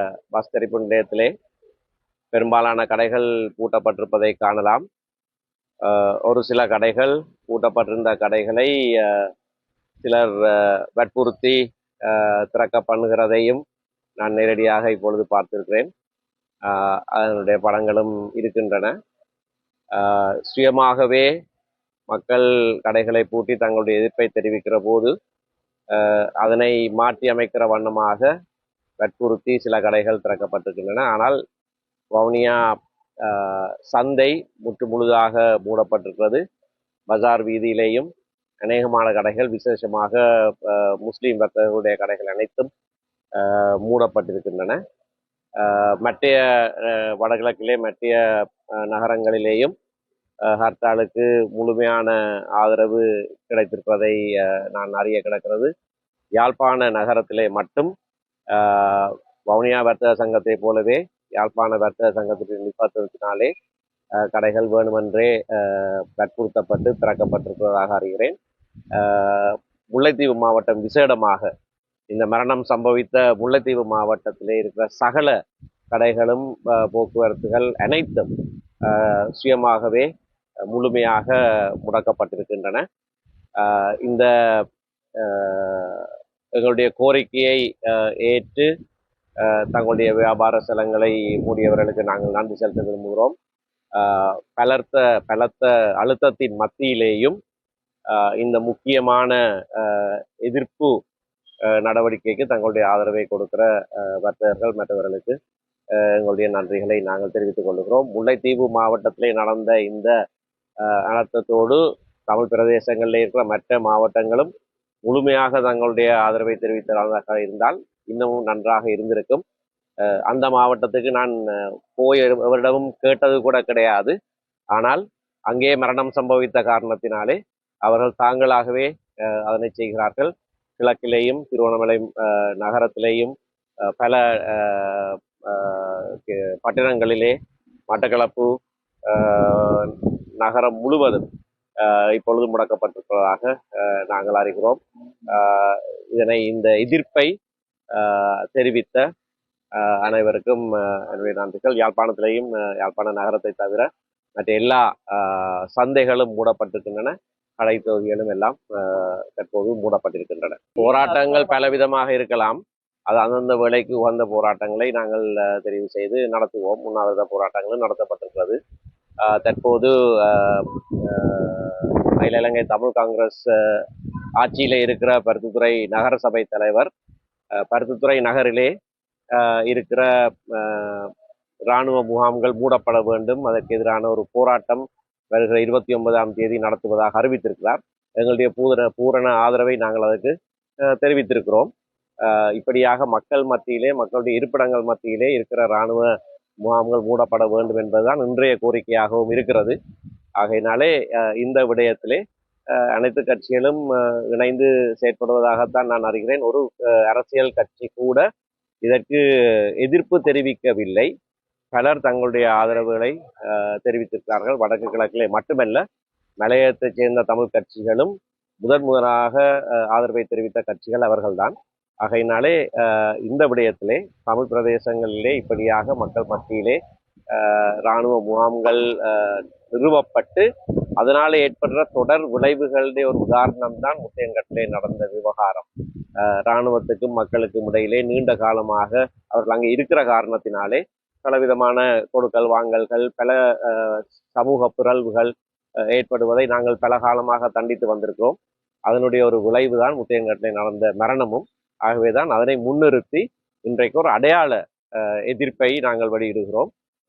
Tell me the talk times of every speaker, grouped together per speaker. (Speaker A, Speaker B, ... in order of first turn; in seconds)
Speaker A: 0.3-1.3, 2.3-4.8, 5.8-9.3, 10.0-13.6, 14.2-15.9, 16.7-18.9, 19.9-21.3, 22.1-25.1, 25.9-28.3, 29.0-31.4, 32.1-32.6, 33.2-36.4, 37.1-38.1, 38.6-42.7, 43.4-44.8, 45.6-48.2, 48.8-49.7, 50.5-55.7, 56.4-57.9, 58.5-63.5, 64.2-68.3, 68.9-71.5, 72.1-75.3, 75.9-78.3, 78.8-80.1, 80.7-82.8, 83.6-84.3, 85.2-88.7, 89.4-93.3, 94.0-97.4, 98.1-100.9, 101.8-105.3, 106.0-110.1, 110.8-114.5, 115.0-119.4, 120.0-124.1, 124.7-133.3, 134.0-137.3, 137.9-138.5, 139.1-141.2, 141.8-147.3, 147.9-149.0, 149.8-168.6, 169.2-173.8, 174.4-176.9, 177.7-178.7, 179.3-181.1, 181.7-190.3, 190.9-191.7, 192.2-196.1, 196.6-199.7, 200.4-202.2, 202.7-208.2, 208.8-209.2, 209.8-211.1, 211.7-215.8, 216.4-226.8, 227.3-230.4, 231.0-235.7, 236.2-245.3, 245.9-248.3, 248.9-256.7